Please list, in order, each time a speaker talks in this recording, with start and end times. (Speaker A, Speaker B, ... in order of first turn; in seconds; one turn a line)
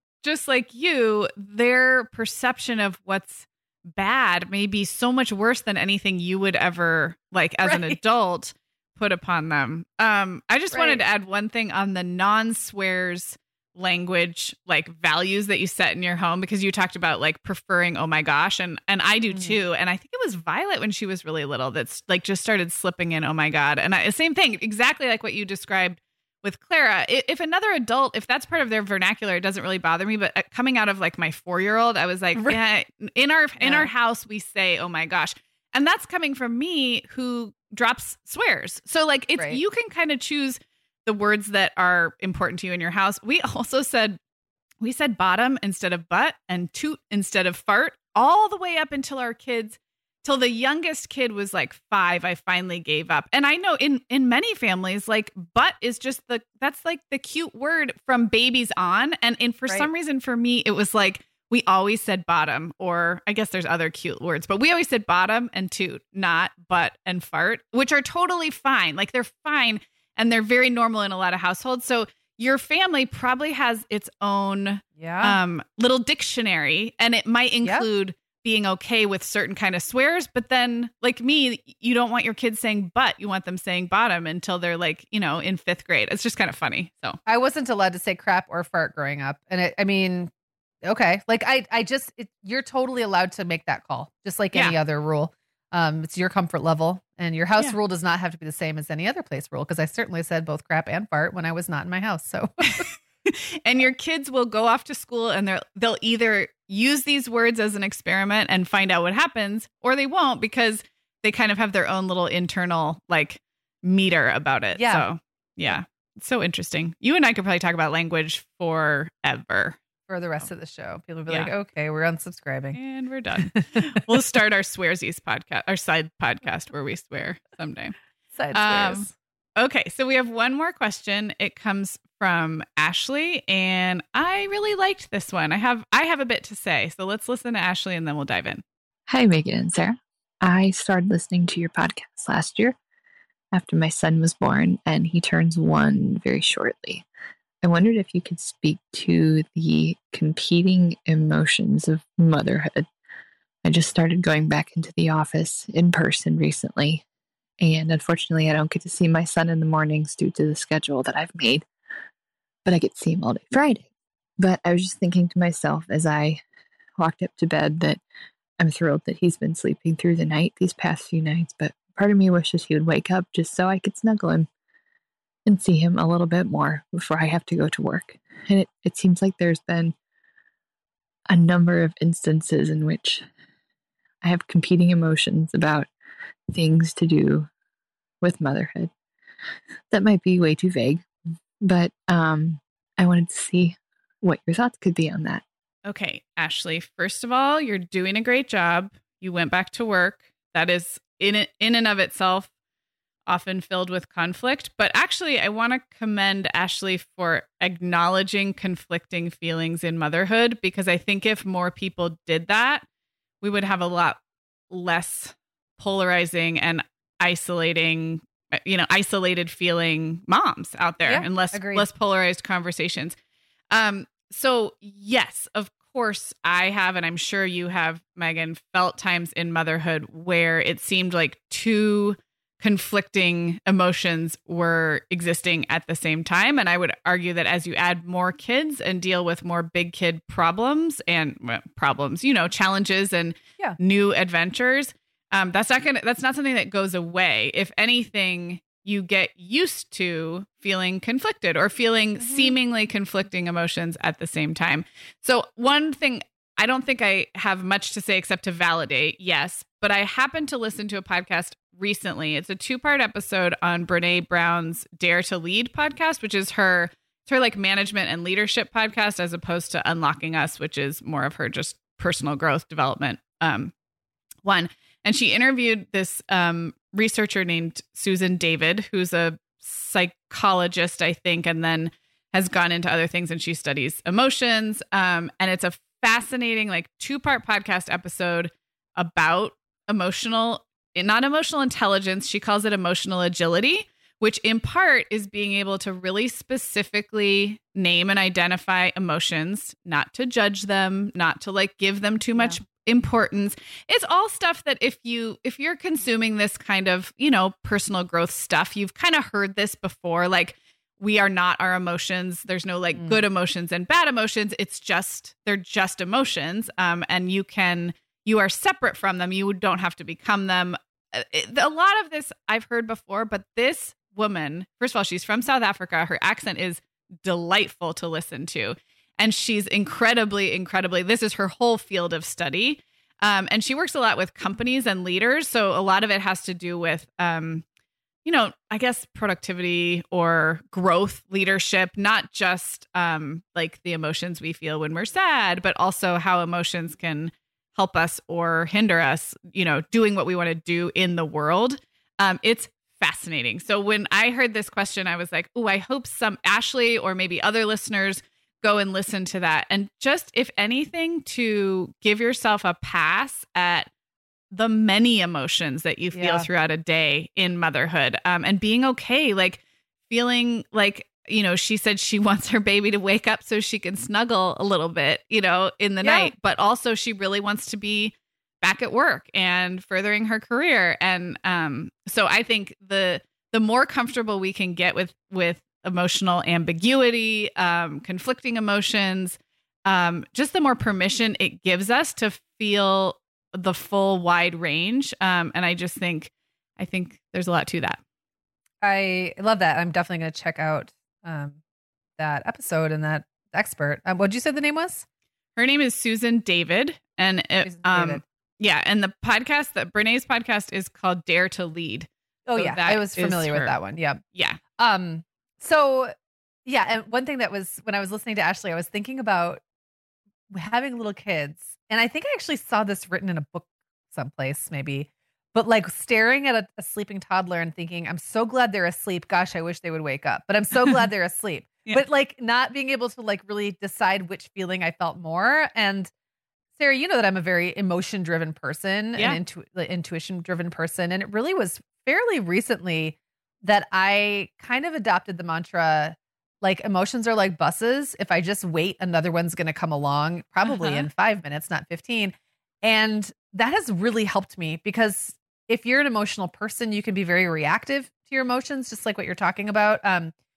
Speaker A: 0.2-44.2
Speaker B: 7.6-8.0
Speaker B: 10.7-11.0
Speaker B: 33.6-33.9
Speaker A: 44.8-87.2
Speaker B: 75.0-75.4
Speaker B: 87.3-90.3
Speaker B: 90.8-102.8
Speaker A: 102.7-119.8
Speaker B: 114.8-115.1
Speaker B: 120.1-122.8
Speaker A: 122.7-128.0
Speaker B: 128.3-129.1
Speaker A: 128.5-138.6
Speaker C: 139.1-142.8
Speaker C: 143.5-147.1
Speaker C: 147.6-152.9
Speaker C: 153.6-157.0
Speaker C: 157.6-161.7
Speaker C: 162.6-163.9
Speaker C: 164.4-166.4
Speaker C: 167.0-168.0
Speaker C: 168.6-174.5
Speaker C: 175.5-179.9
Speaker C: 181.3-183.3
Speaker C: 184.2-185.9
Speaker C: 186.5-187.5
Speaker C: 188.2-188.9
Speaker C: 189.9-191.1
Speaker C: 191.6-195.4
Speaker A: 195.9-202.5
Speaker A: 203.3-212.8
Speaker A: 213.4-223.2
Speaker B: 221.1-221.9
Speaker A: 223.7-273.7
Speaker B: 252.2-252.6
Speaker A: 274.4-337.6
Speaker B: 312.9-313.2
Speaker A: 338.2-363.9
Speaker A: 364.5-398.0
Speaker B: 366.1-366.5
Speaker B: 376.0-376.3
Speaker B: 398.8-401.6
Speaker B: 402.2-405.1
Speaker A: 405.6-413.8
Speaker B: 407.6-408.2
Speaker B: 412.5-414.2
Speaker A: 414.3-414.6
Speaker B: 414.8-416.1
Speaker B: 416.6-419.6
Speaker B: 420.5-436.1
Speaker B: 436.8-460.3
Speaker A: 450.6-451.1